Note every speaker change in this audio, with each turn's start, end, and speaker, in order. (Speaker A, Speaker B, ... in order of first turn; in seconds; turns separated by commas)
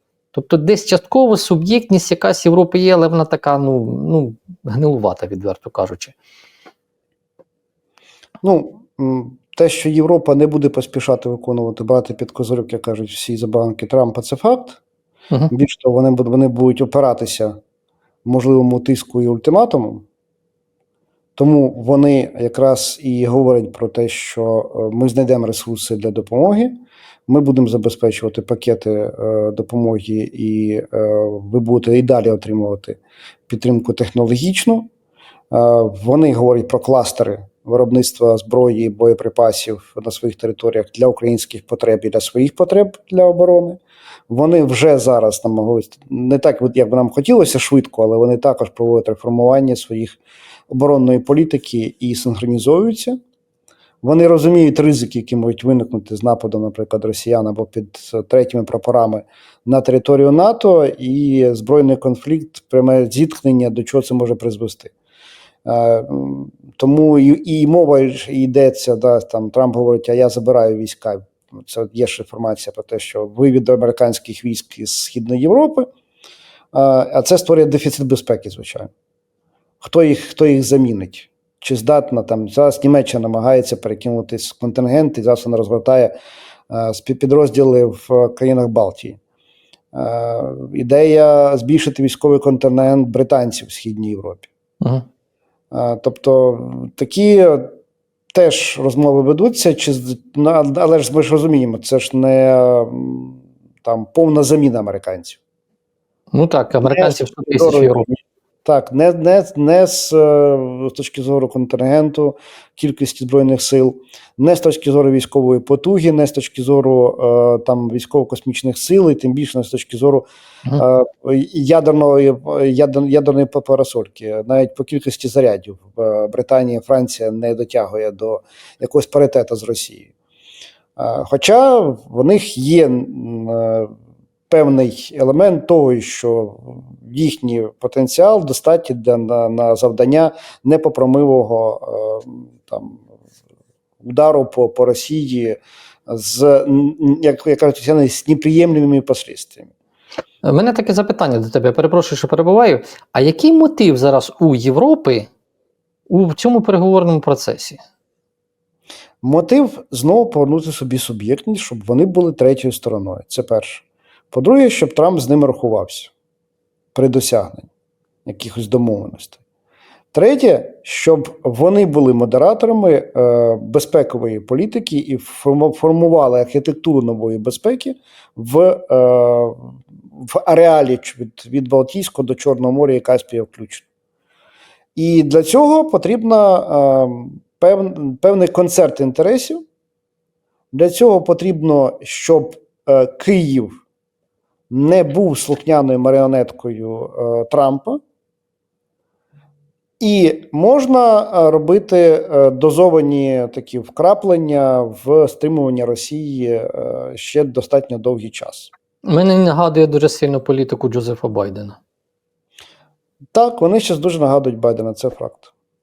Speaker A: 0.3-6.1, Speaker B: 8.4-14.8, Speaker B: 15.5-17.5, Speaker B: 18.2-20.0, Speaker B: 21.4-34.9, Speaker B: 35.5-53.1, Speaker B: 54.0-64.9, Speaker B: 65.6-75.9, Speaker B: 76.7-78.9, Speaker B: 79.8-86.1, Speaker B: 86.7-89.2, Speaker B: 89.9-94.5, Speaker A: 94.8-95.0, Speaker B: 95.7-97.7, Speaker B: 98.3-105.4, Speaker A: 106.3-108.1, Speaker B: 106.8-130.1, Speaker B: 131.0-133.9, Speaker B: 134.5-143.0, Speaker B: 144.0-149.7, Speaker A: 150.4-155.3, Speaker A: 156.1-157.8, Speaker B: 159.2-166.1, Speaker B: 166.9-167.7, Speaker B: 168.2-169.4, Speaker B: 170.1-183.8, Speaker B: 184.9-189.6, Speaker B: 190.7-193.8, Speaker B: 194.7-198.0, Speaker B: 200.0-208.7, Speaker A: 209.1-211.8, Speaker B: 213.3-215.5